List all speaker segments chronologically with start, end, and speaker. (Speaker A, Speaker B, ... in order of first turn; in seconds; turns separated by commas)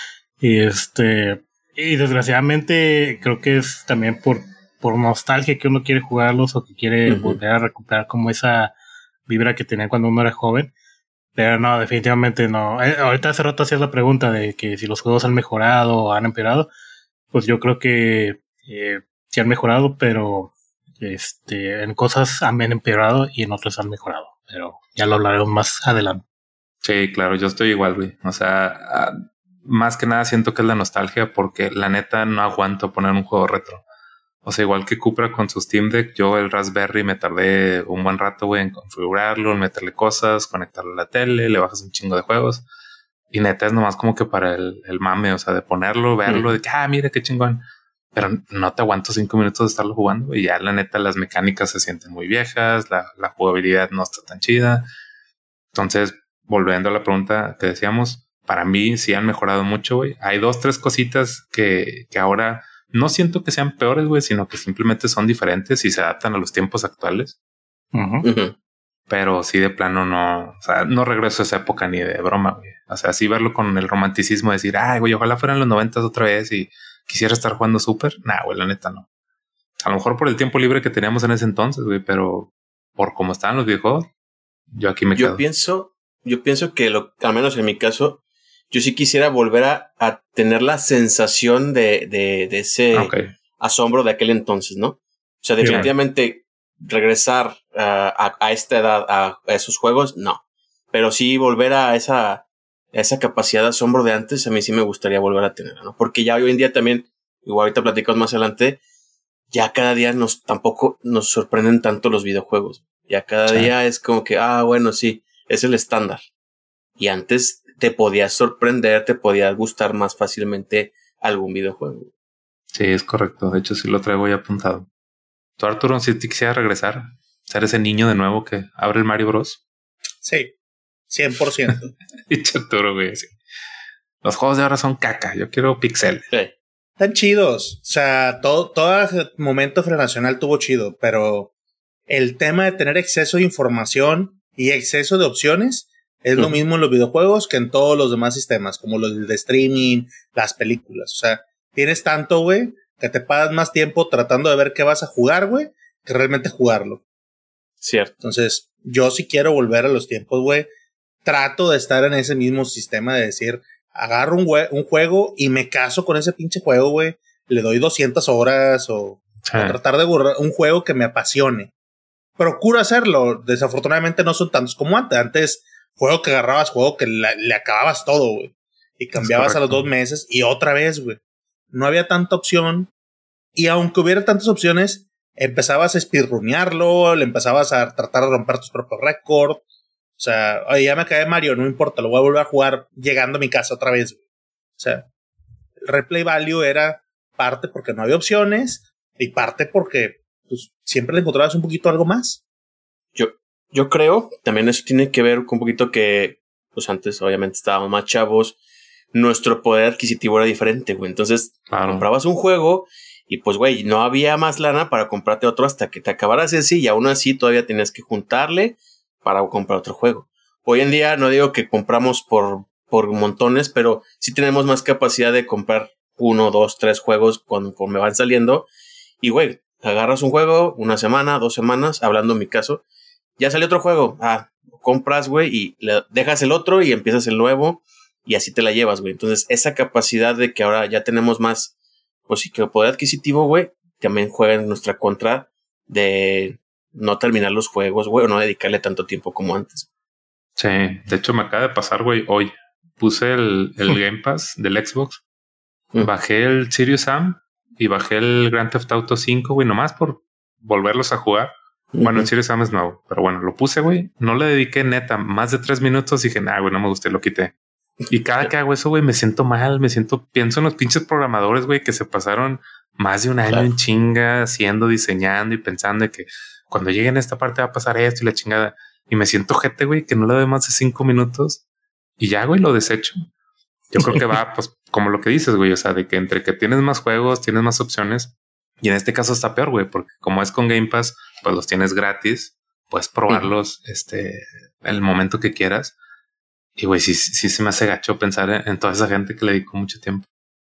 Speaker A: 0.4-8.7, Speaker B: 7.1-7.4, Speaker A: 9.3-10.7, Speaker A: 11.3-16.7, Speaker A: 17.3-26.2, Speaker C: 26.8-33.8, Speaker C: 34.4-42.6, Speaker C: 43.3-47.6, Speaker B: 46.2-46.5, Speaker C: 48.1-54.9, Speaker C: 55.7-67.3, Speaker A: 67.9-68.3, Speaker B: 68.2-68.5, Speaker C: 69.1-79.0, Speaker C: 79.8-84.1, Speaker C: 84.7-85.4, Speaker B: 85.1-108.8, Speaker C: 92.9-93.2, Speaker C: 95.6-95.9, Speaker B: 109.5-116.2, Speaker B: 117.0-122.1, Speaker C: 122.7-124.9, Speaker C: 125.6-129.6, Speaker D: 130.2-130.5, Speaker D: 131.1-131.9, Speaker C: 132.3-133.3, Speaker C: 134.2-136.3, Speaker D: 137.0-141.5, Speaker D: 142.1-157.0, Speaker B: 157.8-158.1, Speaker D: 158.2-160.7, Speaker D: 161.2-171.7, Speaker C: 169.4-169.8, Speaker D: 172.4-181.2, Speaker C: 179.2-179.9, Speaker D: 181.7-182.9, Speaker D: 183.6-189.6, Speaker D: 190.2-194.2, Speaker D: 194.8-195.1, Speaker D: 195.8-202.4, Speaker B: 203.2-208.6, Speaker B: 209.1-228.7, Speaker C: 211.7-212.1, Speaker B: 229.2-232.8, Speaker B: 233.4-241.7, Speaker B: 242.3-249.9, Speaker C: 250.6-255.2, Speaker C: 256.0-267.5, Speaker B: 261.9-262.3, Speaker C: 268.1-281.6, Speaker C: 282.2-283.2, Speaker B: 283.9-284.2, Speaker C: 284.0-295.9, Speaker C: 296.8-300.2